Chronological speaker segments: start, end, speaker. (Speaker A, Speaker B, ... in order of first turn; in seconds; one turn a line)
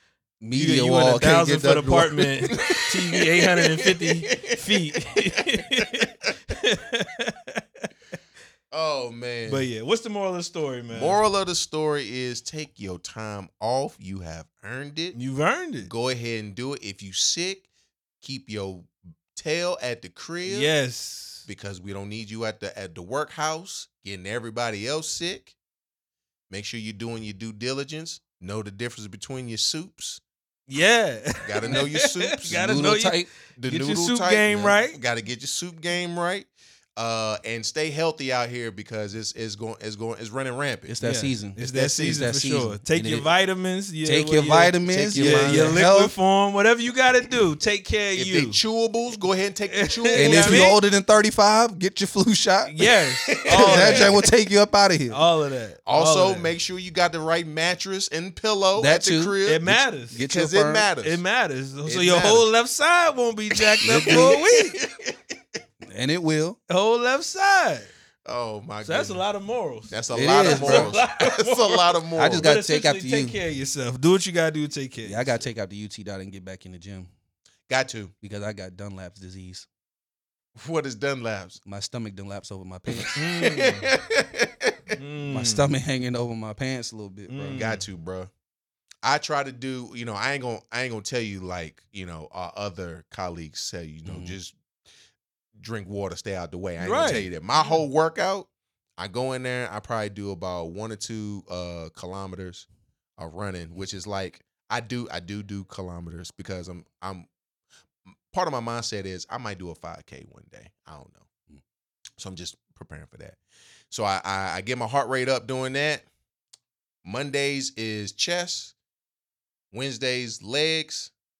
Speaker A: 0.4-2.5
Speaker B: 0.6-8.1
Speaker C: 2.5-5.0
Speaker C: 5.5-6.0
Speaker C: 8.7-9.7
Speaker B: 9.5-11.2
Speaker C: 10.9-15.2
Speaker B: 15.1-15.9
Speaker C: 15.8-17.7
Speaker C: 18.2-20.7
Speaker B: 20.4-21.5
Speaker C: 21.4-25.5
Speaker C: 26.5-30.2
Speaker B: 30.7-35.0
Speaker C: 31.4-32.9
Speaker A: 32.4-33.3
Speaker C: 33.5-40.9
Speaker A: 40.9-43.3
Speaker B: 41.0-48.6
Speaker C: 41.6-42.2
Speaker A: 44.0-46.1
Speaker C: 44.9-45.8
Speaker C: 48.1-50.8
Speaker B: 49.7-50.8
Speaker A: 50.1-52.7
Speaker B: 52.6-54.2
Speaker C: 53.2-54.1
Speaker A: 53.5-55.2
Speaker B: 55.1-56.5
Speaker C: 55.9-61.2
Speaker A: 58.8-60.9
Speaker B: 59.4-60.2
Speaker B: 61.0-64.8
Speaker C: 61.8-62.5
Speaker C: 63.6-65.2
Speaker A: 63.8-64.3
Speaker A: 65.9-66.6
Speaker B: 66.7-67.9
Speaker C: 68.2-69.2
Speaker B: 68.8-75.4
Speaker C: 69.9-72.5
Speaker A: 70.1-70.9
Speaker A: 72.2-73.4
Speaker A: 75.0-77.1
Speaker C: 77.7-78.1
Speaker A: 78.2-79.7
Speaker C: 80.6-81.6
Speaker A: 81.6-83.1
Speaker C: 82.9-85.0
Speaker B: 83.2-83.9
Speaker B: 85.0-85.6
Speaker A: 85.3-87.6
Speaker B: 87.3-87.8
Speaker C: 87.5-88.3
Speaker C: 89.0-94.5
Speaker A: 94.0-94.4
Speaker C: 95.6-102.7
Speaker B: 96.8-97.8
Speaker C: 103.2-107.3
Speaker C: 108.3-111.2
Speaker C: 112.2-113.4
Speaker C: 113.9-116.0
Speaker C: 117.0-118.7
Speaker C: 119.7-121.1